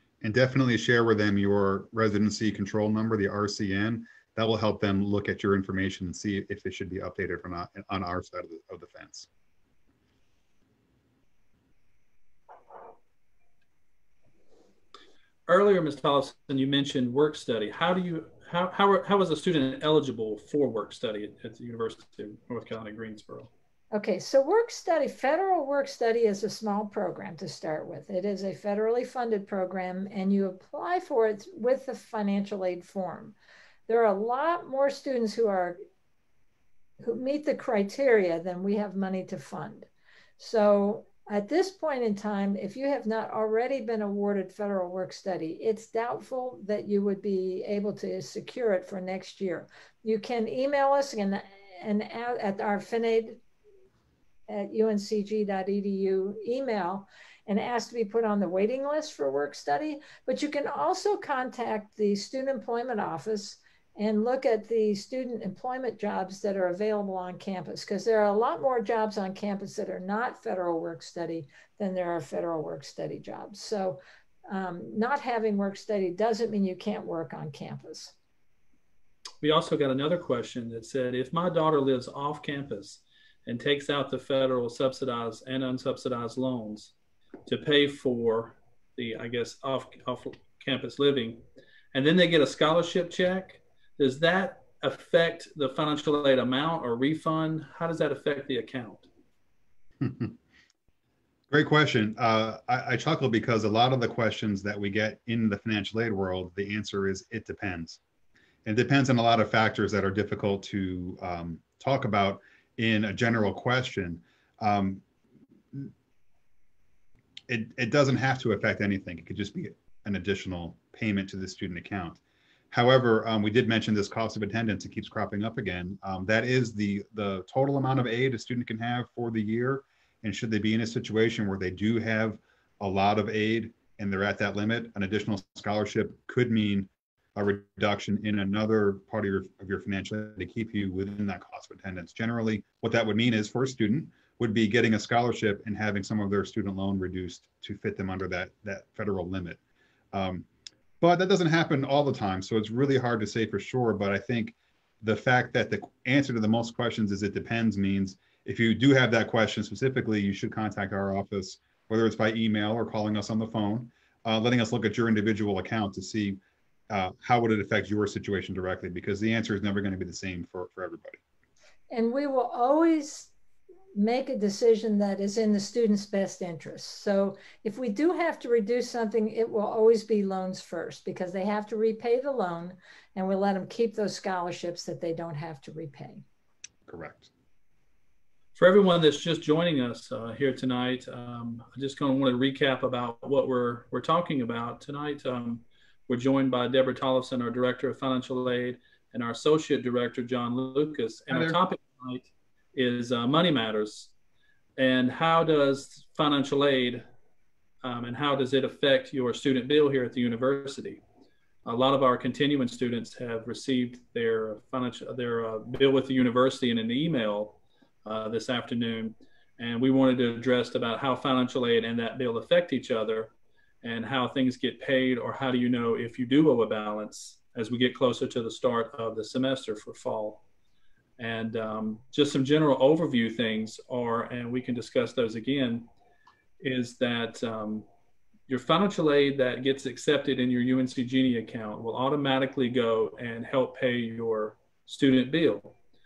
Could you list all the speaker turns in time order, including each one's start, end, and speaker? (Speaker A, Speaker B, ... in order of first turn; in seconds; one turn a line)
Speaker A: 0.2-9.3
Speaker B: 15.5-23.5
Speaker C: 23.9-33.4
Speaker C: 33.9-35.8
Speaker C: 37.0-53.4
Speaker C: 54.5-74.0
Speaker C: 74.5-78.1
Speaker B: 79.4-86.9
Speaker B: 87.5-99.1
Speaker A: 100.0-100.4
Speaker A: 101.5-108.0
Speaker A: 108.6-115.0
Speaker A: 117.5-122.2
Speaker A: 122.7-149.6
Speaker A: 150.1-150.4
Speaker A: 151.0-166.4
Speaker A: 166.9-171.2
Speaker C: 171.9-173.3
Speaker C: 173.9-186.2
Speaker A: 186.9-187.3
Speaker B: 188.6-204.1
Speaker A: 201.3-201.6
Speaker B: 204.8-207.0
Speaker B: 207.8-211.0
Speaker B: 211.7-230.4
Speaker B: 231.2-235.9
Speaker B: 236.6-237.9
Speaker B: 238.5-245.8